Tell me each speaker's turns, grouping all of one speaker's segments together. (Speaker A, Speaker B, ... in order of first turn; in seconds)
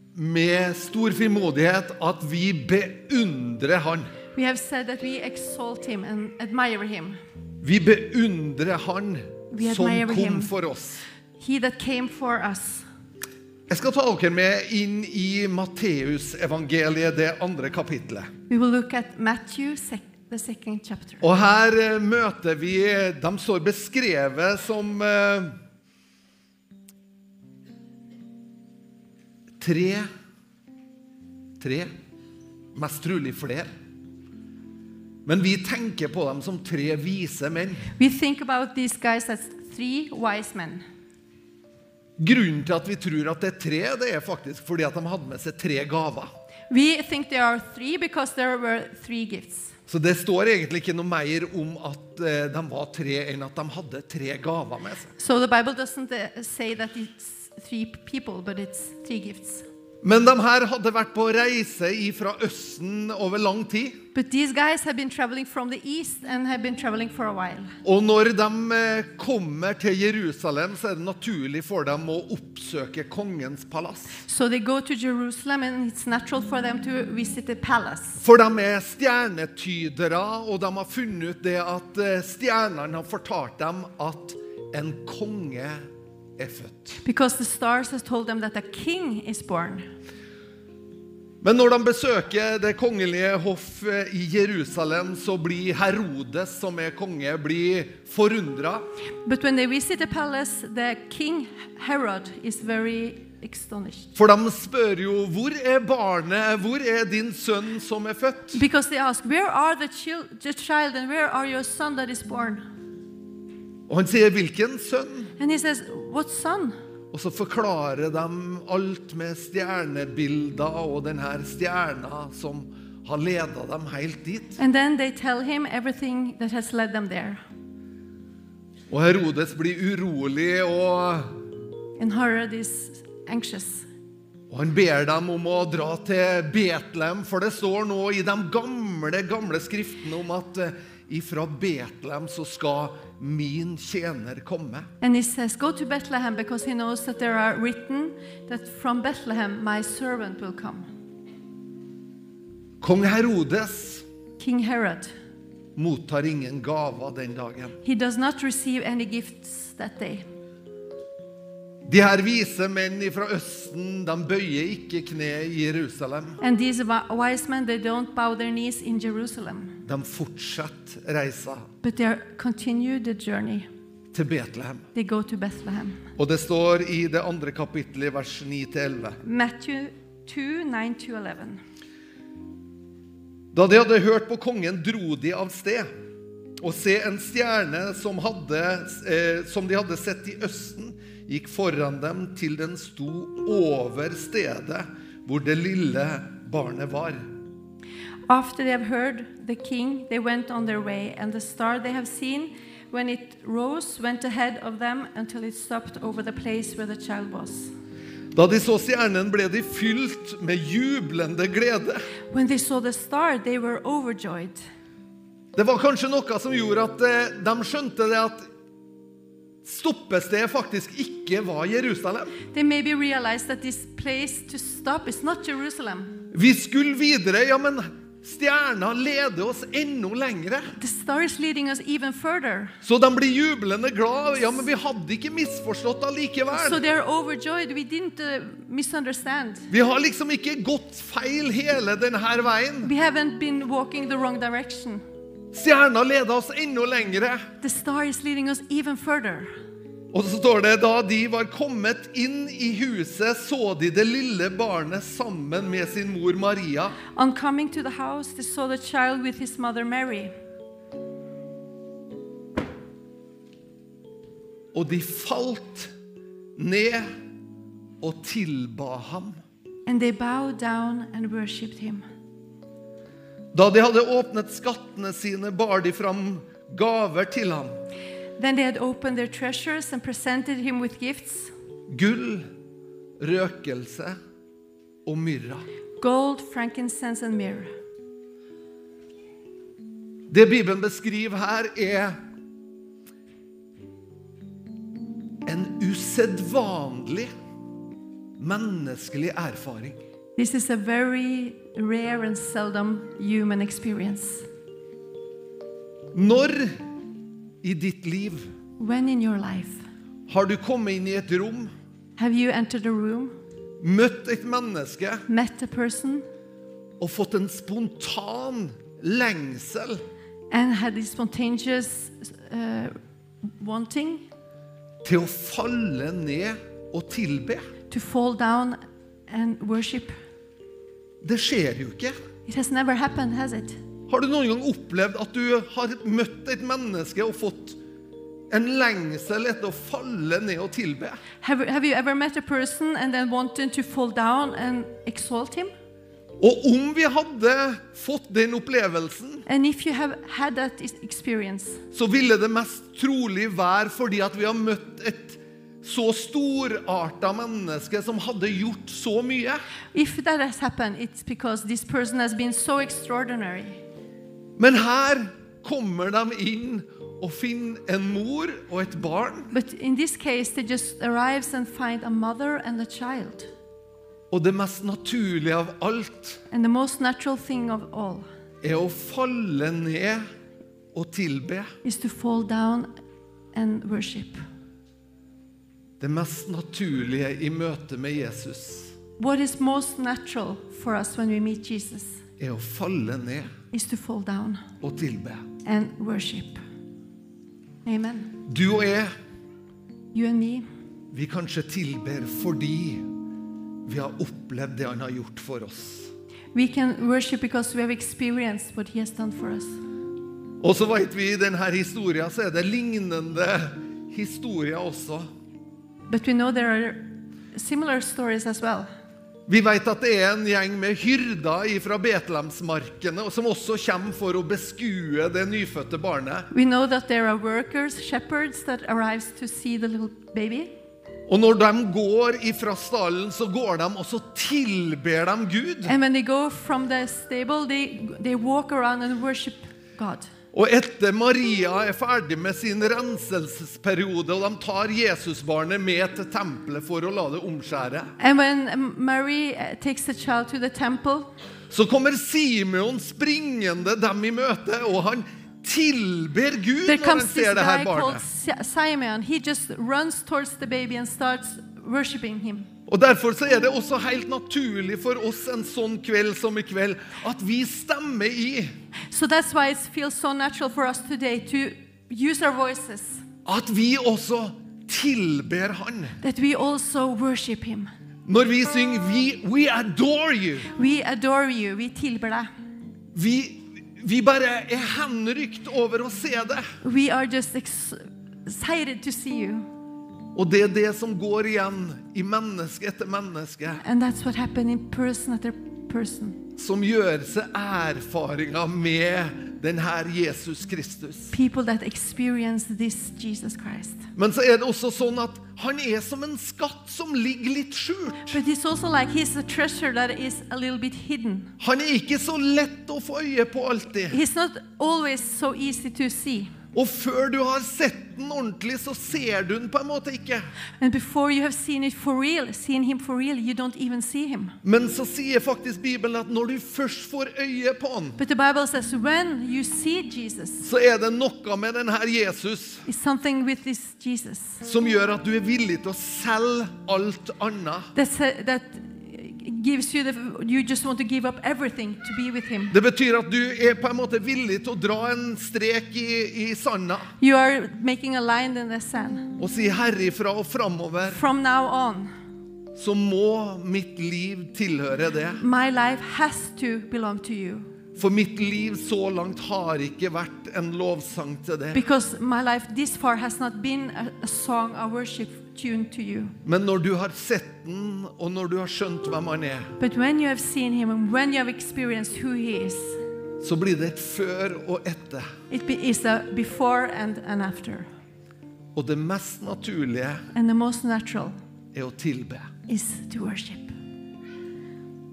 Speaker A: 0.1-4.1, 7.6-11.0, 13.7-18.3, 21.2-25.5, 29.6-30.1, 31.6-31.9, 32.7-33.7, 35.2-37.9, 42.2-46.3, 49.9-55.1, 60.0-64.0, 67.8-74.2, 78.2-85.8, 86.4-87.0, 91.4-98.8, 104.1-108.6, 113.9-115.3, 117.1-124.6, 128.9-131.3, 134.5-144.9, 152.8-154.0, 155.8-157.8, 161.9-166.4, 169.8-171.7, 174.1-174.8, 176.2-179.2, 183.5-185.9, 186.6-197.2, 208.3-212.0, 215.6-218.4, 219.6-222.3, 226.3-230.7, 232.8-236.8, 239.7-242.9, 245.5-247.4, 250.1-257.0, 264.7-265.9, 266.6-267.1, 268.0-269.4, 273.5-277.8, 281.9-282.4, 283.2-284.1, 285.0-285.6, 290.3-292.1, 295.4-297.3, 298.4-300.0, 306.1-306.7, 307.6-308.5, 310.3-311.7, 313.8-315.2, 317.0-320.0, 325.0-327.6, 331.2-332.1, 334.1-337.8, 338.5-341.2, 346.4-349.4, 351.9-359.6, 364.6-369.5, 374.3-376.4, 378.6-380.2, 380.9-381.7, 386.0-388.9, 392.4-393.5, 394.8-395.4, 398.5-399.1, 401.1-403.0, 403.9-406.1, 410.6-415.2, 419.5-426.5, 431.3-435.9, 440.5-448.1, 451.7-458.2, 462.9-468.7, 473.4-476.2, 478.3-480.7, 483.1-486.6, 490.3-493.8, 496.6-501.3, 504.1-508.4, 511.6-514.2, 516.7-520.5, 524.6-528.2, 530.6-532.8, 534.6-537.9, 542.7-547.1, 549.4-551.2, 552.7-555.4, 558.0-561.8, 566.4-569.7, 573.4-575.3, 578.7-580.2, 581.7-582.5
Speaker B: 4.3-7.2, 9.5-10.5, 11.4-12.8, 18.5-21.2, 38.0-40.8, 46.7-49.7, 55.2-59.6, 64.1-67.7, 74.2-78.2, 87.0-89.8, 99.2-104.1, 108.5-112.6, 115.4-116.7, 124.6-127.4, 132.0-133.8, 145.0-150.8, 154.4-155.1, 157.8-160.2, 166.4-169.8, 171.8-173.7, 174.9-176.0, 179.2-181.6, 198.3-207.7, 212.3-214.6, 222.5-226.2, 230.7-232.7, 236.5-239.7, 242.8-245.0, 247.6-249.5, 257.1-260.3, 269.9-272.0, 278.4-281.5, 286.0-287.7, 300.4-304.4, 308.8-309.8, 312.2-313.3, 315.3-316.2, 320.5-322.9, 323.6-324.2, 327.9-330.1, 332.5-333.8, 341.4-345.7, 349.4-351.8, 359.9-363.8, 369.5-373.5, 376.5-378.2, 381.8-382.9, 383.5-384.4, 389.2-392.2, 393.7-394.6, 395.6-396.6, 397.8-398.3, 400.1-400.6, 406.5-409.8, 416.1-418.9, 426.5-430.7, 435.8-440.3, 448.2-451.3, 456.8-462.7, 469.1-473.2, 476.2-477.9, 480.7-482.5, 486.8-489.6, 493.8-496.4, 501.3-504.0, 508.3-511.5, 514.1-516.5, 520.8-524.5, 528.2-530.6, 532.9-534.6, 537.9-542.8, 547.2-549.3, 551.0-552.1, 555.4-557.7, 561.7-566.3, 569.8-573.0, 575.5-577.9, 580.3-581.3, 582.7-583.7